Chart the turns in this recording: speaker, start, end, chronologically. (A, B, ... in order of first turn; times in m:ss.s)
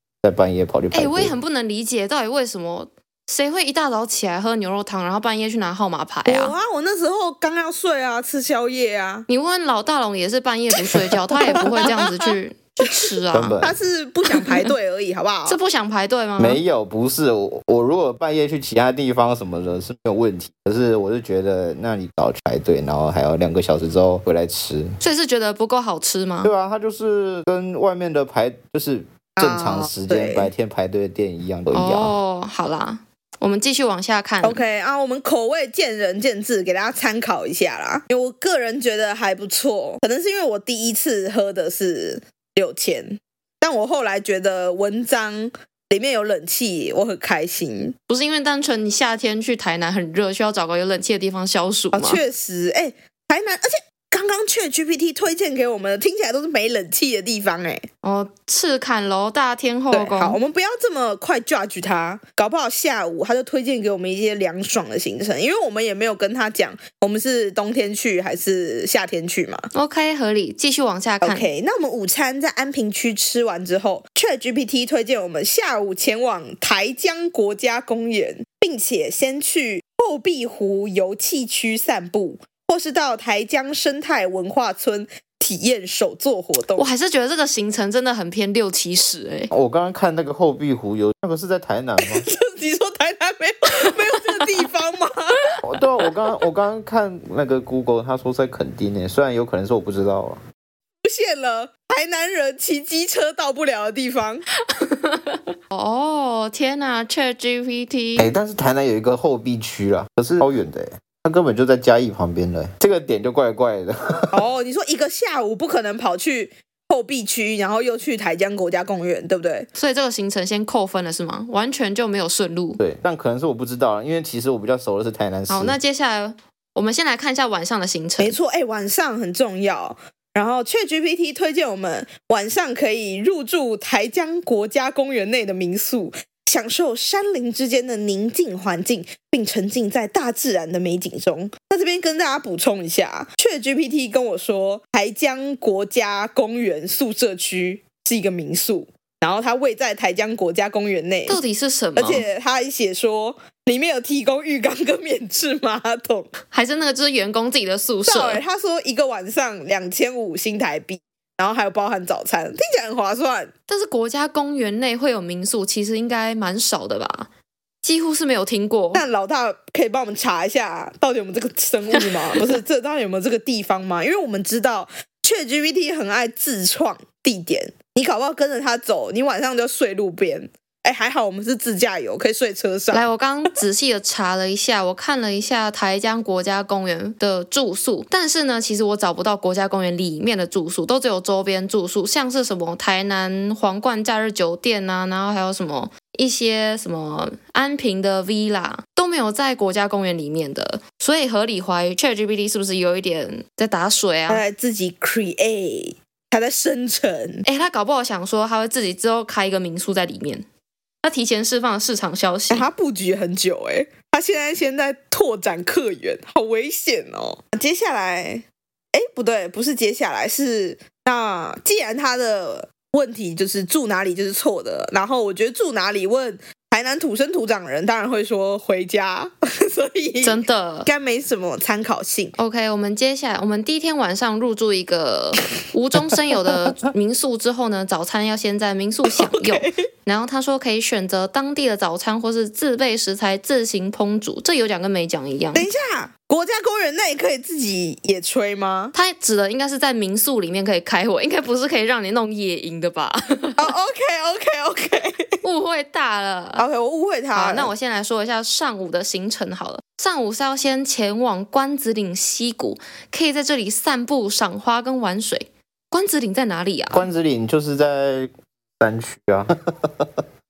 0:00.2-0:01.4 A
0:00.9-0:06.6 B
0:06.3-0:09.3 C
0:09.3-0:13.6 B
0:10.8-0:12.3 C
0:13.3-0:13.8 A
0:13.6-0:15.6 C
0:14.3-0:14.7 B
0:15.5-0:16.6 B
0:16.4-0:25.0 A
0:25.0-0:26.5 B
0:26.4-0:32.1 A
0:29.4-0:30.5 C
0:31.7-0:34.6 B
0:34.4-0:48.0 C
0:48.1-0:52.2 B
0:51.9-0:57.9 C
0:58.0-1:00.4 B
0:59.9-1:09.7 C
1:09.7-1:11.5 B
1:11.2-1:26.9 C
1:26.8-1:29.5 B
1:29.5-1:32.3 A
1:32.0-1:35.4 C
1:35.6-1:40.4 A
1:41.0-1:44.4 C
1:44.7-1:48.3 B
1:48.2-1:54.5 A
1:54.3-1:59.7 C
1:59.7-2:02.8 B
2:02.8-2:05.8 A
2:05.5-2:08.4 B
2:08.2-2:31.4 C
2:31.3-2:32.3 B
2:32.0-2:36.3 C
2:36.5-2:38.4 B
2:38.1-2:43.5 C
2:43.7-2:47.3 B
2:47.8-2:49.0 B
2:48.9-3:03.1 C
3:02.9-3:24.4 B
3:24.3-3:27.4 C
3:27.4-3:30.4 B
3:31.0-3:32.7 B
3:32.5-3:52.3 C
3:50.2-3:50.9 B
3:52.4-4:05.7 B
3:59.1-3:59.9 C
4:05.6-4:08.9 C
4:08.9-4:13.7 B
4:13.6-4:15.4 C
4:15.4-4:16.6 B
4:16.6-4:17.7 C
4:17.3-4:27.1 B
4:26.9-4:30.1 A